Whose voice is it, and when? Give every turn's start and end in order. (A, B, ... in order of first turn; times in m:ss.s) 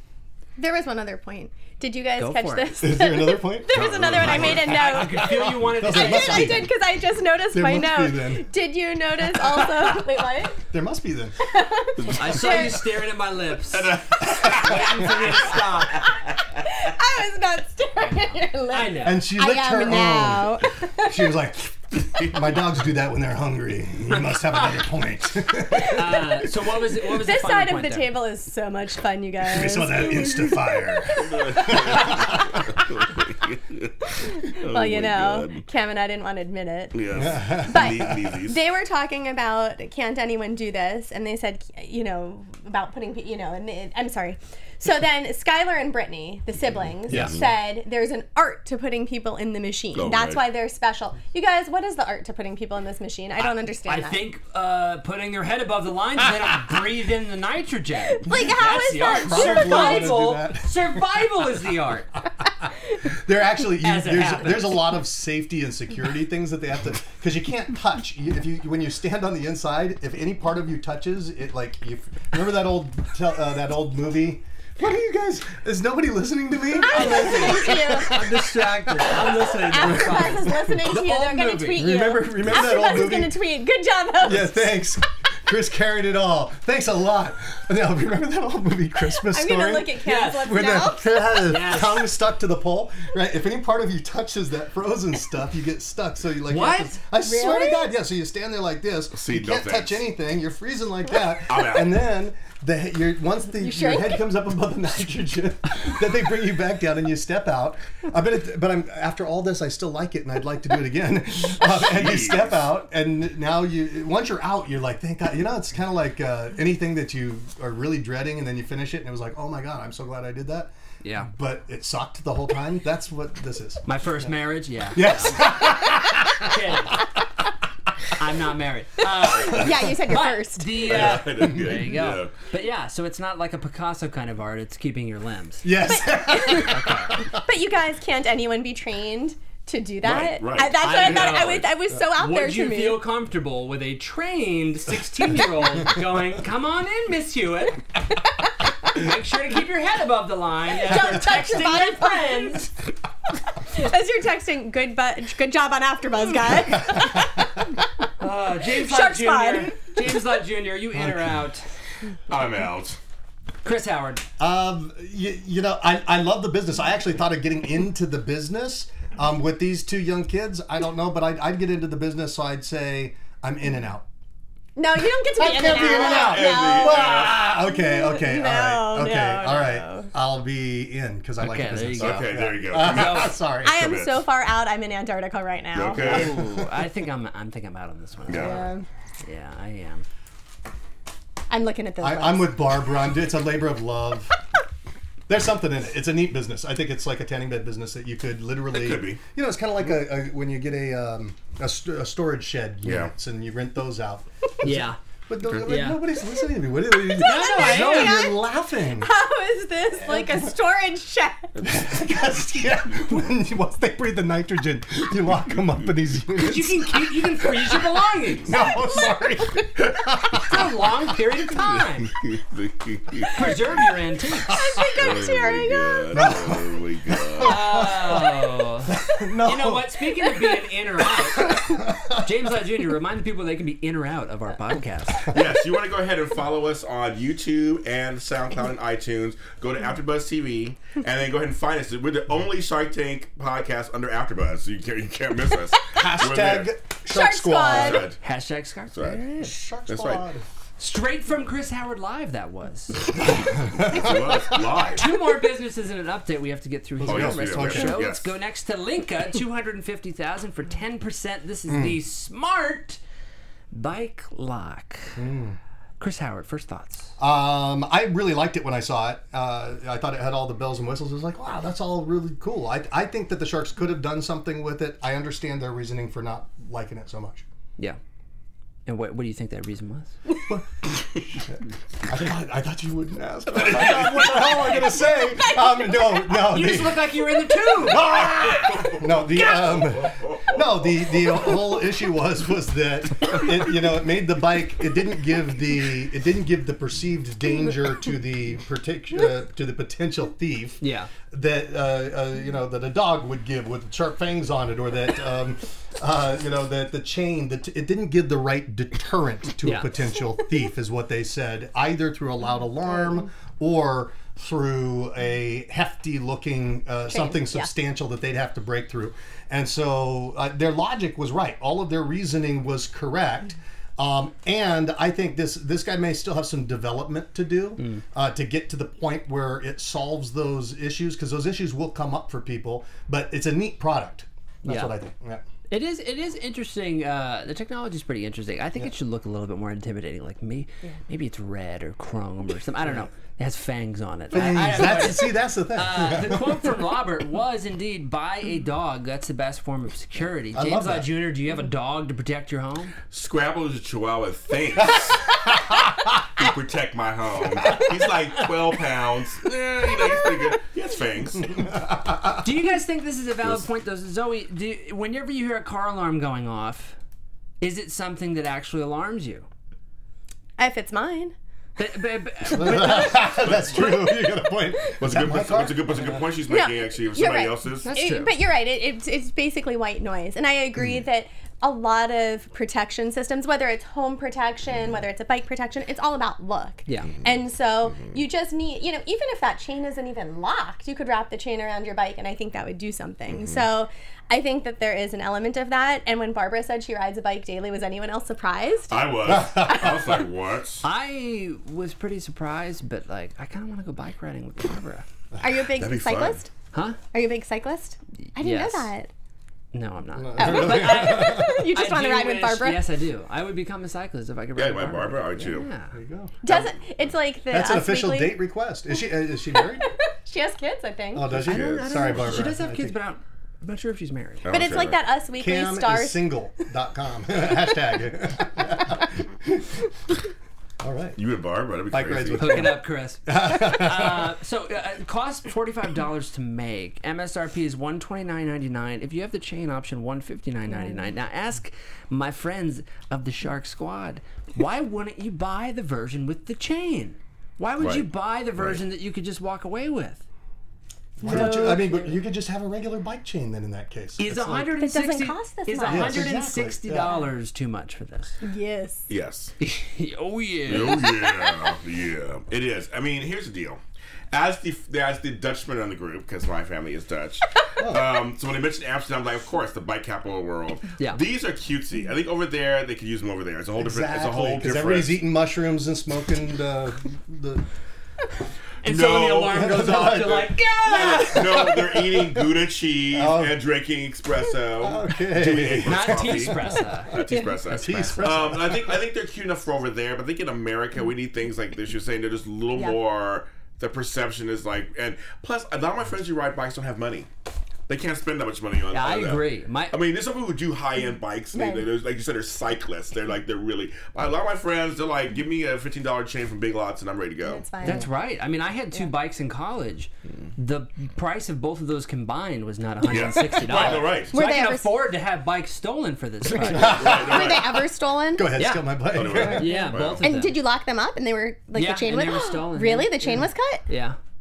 0:00.6-0:10.6 A
0:02.2-0:03.0 B
0:02.8-0:06.7 C
0:03.7-0:05.0 D
0:04.2-0:06.7 B
0:07.5-0:08.5 C
0:10.7-0:11.4 C
0:11.5-0:12.9 A
0:12.0-0:12.7 D
0:12.2-0:16.1 B
0:13.7-0:16.6 D
0:16.7-0:21.2 A
0:18.0-0:19.3 B
0:19.0-0:26.4 C
0:25.8-0:28.2 B
0:27.1-0:32.5 A
0:29.4-0:32.6 C
0:31.1-0:35.6 D
0:34.2-0:54.3 A
0:36.9-0:38.6 D
0:37.1-0:38.2 C
0:47.1-0:47.4 C
0:47.1-0:47.5 D
0:49.9-0:50.4 D
0:53.9-1:02.1 B
0:58.0-1:00.3 A
0:59.0-1:01.0 C
1:03.0-1:20.9 C
1:03.8-1:04.9 B
1:16.7-1:18.2 A
1:16.9-1:21.9 B
1:19.2-1:24.7 A
1:21.8-1:23.4 C
1:24.2-2:00.7 C
1:29.3-1:31.4 A
1:30.0-1:32.1 B
1:36.5-1:37.0 B
1:37.2-1:38.0 A
1:39.1-1:40.1 D
1:41.5-1:42.0 D
1:43.6-1:44.3 A
1:51.6-1:52.7 D
2:01.0-2:01.3 B
2:01.3-2:03.8 C
2:03.9-2:07.0 B
2:04.9-2:06.6 C
2:08.2-2:15.8 B
2:09.2-2:10.9 A
2:10.8-2:12.3 D
2:10.9-2:11.5 C
2:15.6-2:17.4 C
2:15.9-2:23.0 A
2:16.5-2:17.2 B
2:20.0-2:21.7 D
2:20.8-2:27.8 B
2:28.9-2:32.7 B
2:30.7-2:32.6 A
2:33.6-2:37.7 A
2:37.0-2:37.3 C
2:38.2-2:41.7 B
2:38.7-2:39.8 A
2:40.9-2:41.4 C
2:42.3-2:43.0 D
2:43.6-2:44.2 B
2:44.4-2:54.1 C
2:54.8-3:00.1 A
2:55.0-3:03.9 C
2:55.6-2:57.4 D
3:01.4-3:03.3 B
3:02.0-3:04.3 D
3:03.6-3:06.3 A
3:05.7-3:06.4 D
3:05.9-3:08.7 B
3:06.0-3:06.8 C
3:08.3-3:08.7 D
3:08.3-3:08.9 A
3:09.2-3:10.0 B
3:11.5-3:12.9 A
3:12.0-3:14.4 C
3:15.3-3:29.1 C
3:18.7-3:19.2 D
3:22.8-3:23.1 D
3:24.6-3:25.0 B
3:25.6-3:26.0 B
3:27.0-3:31.5 A
3:27.2-3:28.3 B
3:30.0-3:30.5 C
3:31.6-3:37.9 C
3:36.4-3:38.6 B
3:38.4-3:40.7 C
3:40.4-3:42.1 B
3:42.1-3:43.4 D
3:43.3-3:44.6 B
3:44.5-3:46.2 A
3:45.0-3:47.8 D
3:46.1-3:48.4 C
3:47.4-3:55.3 B
3:48.9-3:50.0 C
3:51.2-3:52.2 C
3:55.3-4:06.7 D
4:05.9-4:08.1 C
4:07.1-4:08.1 A
4:07.7-4:08.2 D
4:08.2-4:09.6 B
4:08.9-4:09.2 D
4:09.4-4:10.5 C
4:09.9-4:10.3 D
4:10.8-4:13.2 B
4:13.2-4:14.6 C
4:13.8-4:15.1 D
4:15.0-4:23.0 B
4:17.0-4:18.0 C
4:17.0-4:18.3 D
4:21.7-4:22.0 C
4:23.7-4:25.2 B
4:25.2-4:25.6 C
4:26.0-4:27.1 B
4:27.2-4:37.4 C
4:38.9-4:40.2 B
4:40.4-4:47.2 C
4:43.5-4:44.7 D
4:45.3-4:46.2 A
4:46.3-4:48.2 B
4:47.8-5:35.4 C
4:48.1-4:50.6 D
5:00.8-5:01.1 B
5:09.6-5:09.9 B
5:17.1-5:17.7 A
5:34.7-5:35.0 B
5:35.7-5:52.9 B
5:42.8-5:43.1 C
5:44.3-5:46.8 C
5:50.5-5:51.2 C
5:53.1-5:55.3 D
5:56.4-6:01.6 D
6:01.5-6:02.4 C
6:02.4-6:07.0 B
6:07.6-6:09.5 B
6:10.6-6:11.4 A
6:11.8-6:13.5 B
6:12.5-6:16.2 C
6:13.3-6:14.2 D
6:15.0-6:17.9 D
6:16.5-6:40.2 A
6:17.8-6:18.4 B
6:26.9-6:27.1 B
6:33.3-6:33.6 D
6:38.9-6:40.8 D
6:39.3-6:39.8 C
6:40.8-6:45.0 B
6:45.4-6:46.5 A
6:45.8-6:46.4 D
6:46.7-6:47.0 B
6:47.1-6:49.1 A
6:48.2-6:48.9 B
6:49.7-6:56.0 B
6:50.2-6:51.7 C
6:50.4-6:52.9 A
6:54.6-6:55.7 D
6:55.9-6:56.7 C
6:56.4-6:58.4 A
6:57.5-6:59.9 C
6:59.6-7:01.4 A
7:01.1-7:03.0 C
7:01.3-7:02.5 D
7:01.5-7:04.5 B
7:04.4-7:05.0 D
7:04.5-7:06.2 A
7:05.4-7:09.9 C
7:10.8-7:11.2 C
7:11.2-7:12.7 D
7:11.9-7:14.3 C
7:12.4-7:30.2 B
7:27.8-7:28.0 D
7:31.2-7:34.7 C
7:31.2-7:32.0 B
7:31.2-7:32.0 A
7:34.2-7:38.4 B
7:34.7-7:36.4 A
7:35.8-7:37.2 C
7:38.4-7:39.1 A
7:39.1-7:39.5 D
7:39.6-7:41.1 B
7:40.7-7:43.8 D
7:41.0-7:41.6 A
7:44.3-7:55.2 D
7:47.8-7:48.1 C
7:53.8-7:57.6 C
7:58.8-8:01.7 B
7:58.8-8:17.3 D
7:59.4-8:02.5 C
8:03.1-8:03.7 C
8:04.8-8:06.8 C
8:05.8-8:08.5 B
8:07.7-8:09.0 C
8:17.9-8:27.6 D
8:18.9-8:20.0 B
8:21.5-8:21.9 A
8:27.4-8:28.1 A
8:27.8-8:37.1 B
8:33.0-8:34.3 D
8:33.1-8:33.7 A
8:34.3-8:35.0 A
8:36.6-8:37.8 D
8:36.6-8:37.8 C
8:36.8-8:38.6 A
8:38.4-8:39.9 C
8:38.6-8:40.6 B
8:39.1-8:40.3 D
8:39.8-8:43.8 A
8:41.7-8:44.2 B